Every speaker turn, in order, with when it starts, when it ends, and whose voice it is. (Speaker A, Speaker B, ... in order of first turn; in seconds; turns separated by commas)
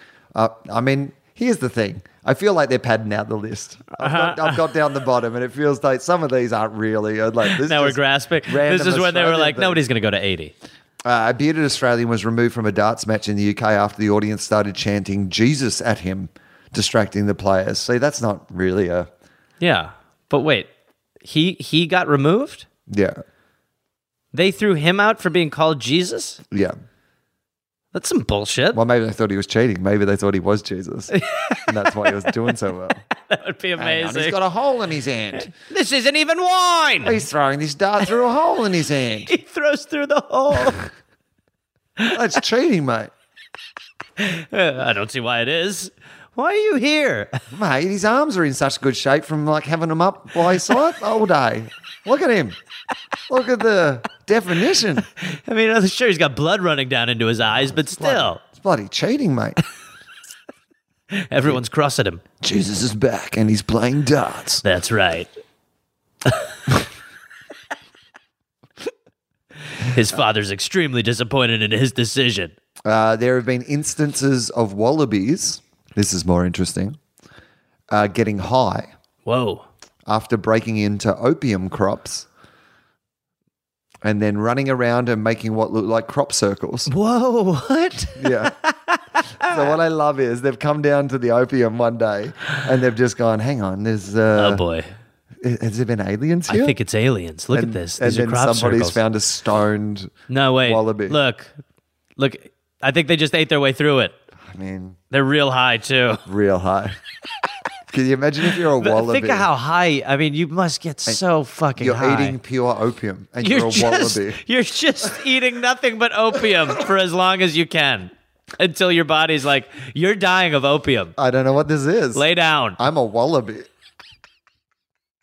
Speaker A: 0.3-9.8, Speaker B: 4.0-4.6, Speaker B: 7.5-10.5, Speaker A: 11.0-19.1, Speaker B: 19.6-20.7, Speaker B: 21.2-22.7, Speaker A: 22.9-23.2, Speaker B: 24.3-26.4, Speaker A: 26.5-26.8, Speaker B: 27.9-28.8, Speaker A: 28.7-31.1, Speaker B: 31.1-32.5, Speaker A: 31.7-33.0, Speaker B: 33.2-34.4, Speaker A: 33.8-35.5, Speaker B: 35.4-37.2, Speaker A: 37.0-39.3, Speaker B: 39.2-40.9, Speaker A: 42.1-43.1, Speaker B: 44.2-47.4, Speaker A: 47.5-52.5, Speaker A: 53.3-55.0, Speaker B: 55.2-58.4, Speaker A: 58.0-59.6, Speaker B: 61.1-62.2, Speaker A: 62.4-64.6, Speaker B: 64.6-65.3, Speaker B: 69.8-72.5, Speaker A: 72.8-77.0, Speaker A: 77.9-78.9, Speaker B: 79.2-79.6, Speaker A: 80.0-82.3, Speaker A: 84.0-86.9, Speaker B: 86.9-89.7, Speaker A: 88.2-88.5, Speaker A: 89.4-94.6, Speaker B: 94.3-94.9, Speaker A: 95.4-96.8, Speaker B: 96.5-99.0, Speaker A: 97.5-101.2, Speaker B: 100.3-101.5, Speaker B: 102.2-104.1, Speaker A: 104.4-105.0, Speaker B: 105.1-106.2, Speaker A: 106.2-107.0, Speaker A: 107.9-109.5, Speaker B: 108.8-112.4, Speaker A: 111.8-114.4, Speaker B: 113.4-121.1, Speaker A: 121.2-122.2, Speaker B: 122.1-122.8, Speaker A: 122.8-123.7